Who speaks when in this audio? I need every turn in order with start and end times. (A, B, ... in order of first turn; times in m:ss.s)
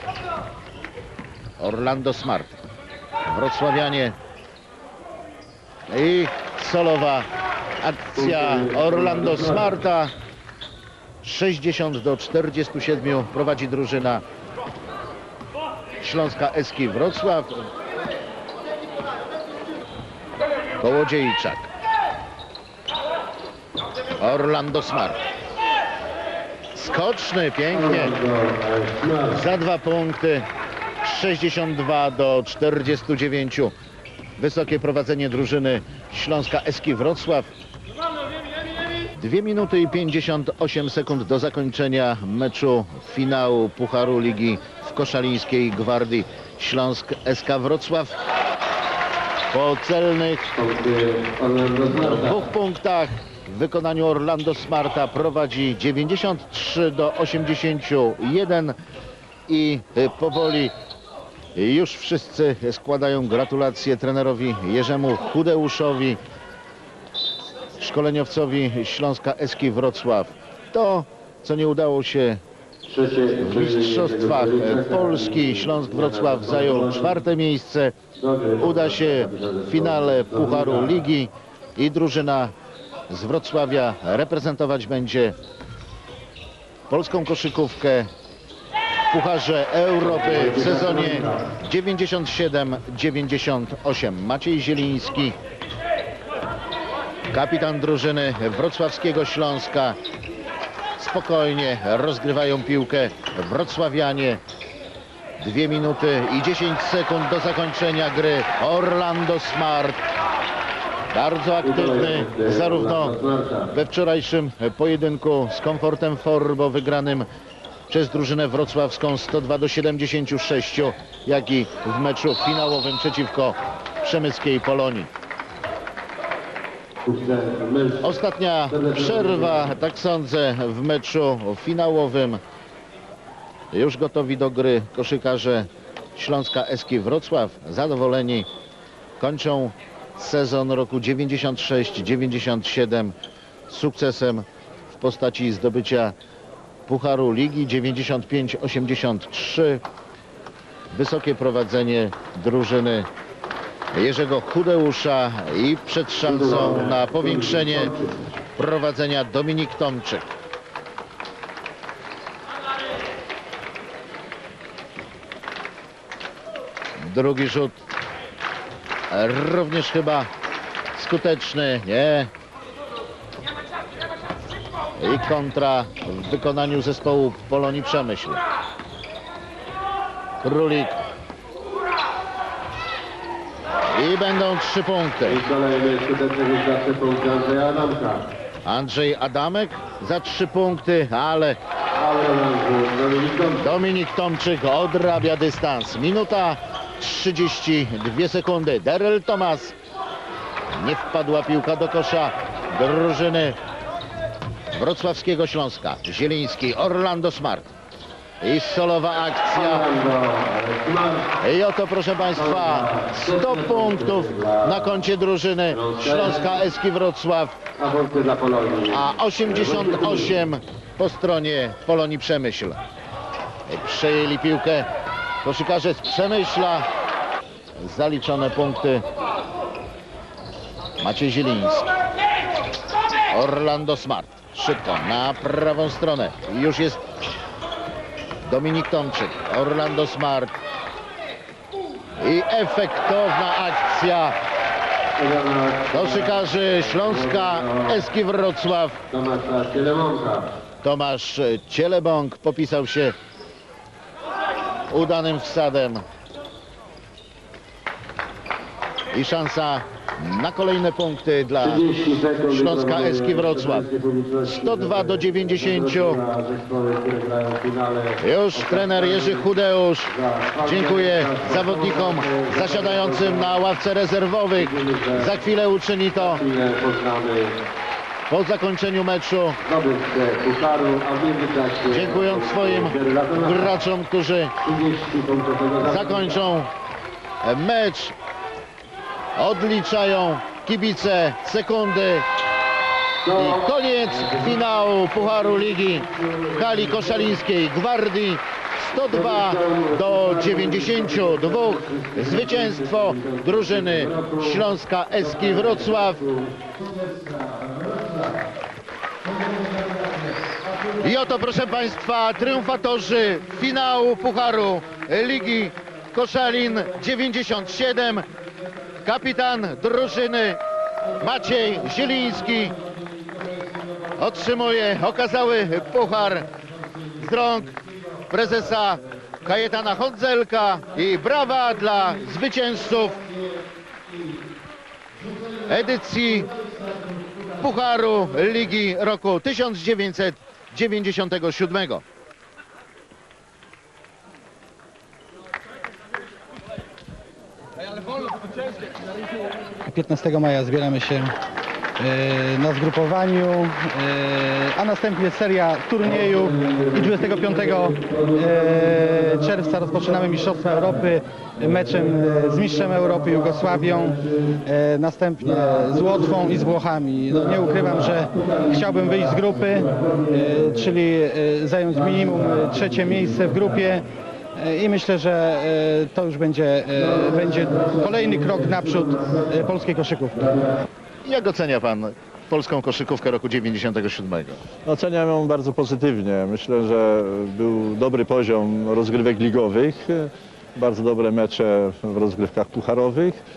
0:01.6-0:02.6 A
0:03.3-0:04.2 A
0:05.9-0:07.3 A
0:07.8-0:10.1 A
0:08.2-0:09.7 B
0:11.2-0:14.2 A
0:16.0-0:17.6 A
0:20.8-0:21.7 A
0:24.2-0:25.2 A
0:26.7-0:28.2 A
0:27.7-0:29.4 B
0:29.3-0:30.5 A
0:31.0-0:33.7 A
0:34.4-0:37.5 A
0:39.2-0:48.2 A
0:49.5-0:50.5 A
0:50.5-0:52.4 B
0:51.9-0:58.8 A
0:59.5-1:00.7 A
1:01.6-1:06.2 A
1:07.8-1:12.4 A
1:12.8-1:17.2 B
1:13.4-1:17.9 A
1:18.2-1:21.0 B
1:18.6-1:22.5 A
1:23.1-1:25.3 A
1:26.9-1:28.1 A
1:29.1-1:35.4 A
1:30.0-1:31.4 B
1:37.3-1:40.0 A
1:41.0-1:44.4 A
1:45.4-1:50.0 A
1:51.1-1:57.2 A
1:51.6-1:53.7 B
1:57.9-2:05.1 A
2:07.0-2:08.2 B
2:08.0-2:12.4 A
2:08.7-2:09.7 B
2:13.7-2:18.5 A
2:19.2-2:23.1 A
2:23.7-2:26.1 A
2:26.9-2:29.8 A
2:30.9-2:33.1 A
2:33.9-2:37.9 A
2:36.2-2:38.2 B
2:38.6-2:40.3 A
2:47.0-2:47.8 A
2:49.1-2:50.3 A
2:50.9-2:52.3 A
2:55.0-2:58.4 A
3:00.4-3:01.0 A
3:03.9-3:05.4 A
3:05.2-3:08.2 B
3:08.6-3:11.6 A
3:12.0-3:13.8 B
3:13.6-3:19.8 A
3:20.8-3:23.6 A
3:24.7-3:27.7 A
3:28.4-3:29.9 A
3:29.5-3:31.3 B
3:31.4-3:37.6 A
3:32.3-3:35.0 B
3:35.7-3:36.6 B
3:37.8-3:40.4 B
3:38.9-3:42.8 A
3:43.7-3:44.9 A
3:45.4-3:46.9 A
3:47.8-3:49.0 A
3:51.0-3:51.9 A
3:53.3-3:57.0 A
3:58.4-4:00.6 A
4:02.2-4:04.4 A
4:05.2-4:08.0 B
4:05.9-4:09.0 A
4:09.1-4:10.5 B
4:10.8-4:13.1 A
4:14.9-4:16.0 A
4:19.1-4:21.9 A
4:21.6-4:29.5 B
4:22.5-4:23.9 A
4:24.4-4:26.2 A
4:28.2-4:30.1 A
4:30.1-4:33.6 B
4:30.6-4:36.4 A
4:34.6-4:35.4 B
4:36.2-4:37.6 B
4:38.3-4:39.6 A
4:39.6-4:43.8 B
4:41.9-4:44.5 A
4:44.6-4:46.4 B
4:45.8-4:46.7 A
4:47.4-4:48.1 A
4:49.4-4:52.2 A
4:53.2-4:54.6 B
4:53.3-5:06.2 A
4:55.1-4:57.4 B
4:59.0-5:06.6 B
5:11.0-5:18.2 A
5:19.0-5:20.6 A
5:21.2-5:22.8 A
5:24.1-5:26.5 A
5:27.1-5:33.3 A
5:35.6-5:36.5 A
5:37.6-5:42.0 A
5:49.8-5:51.3 C
5:52.0-6:14.0 C
6:14.6-6:20.6 C
6:21.2-6:24.6 A
6:24.8-6:33.4 D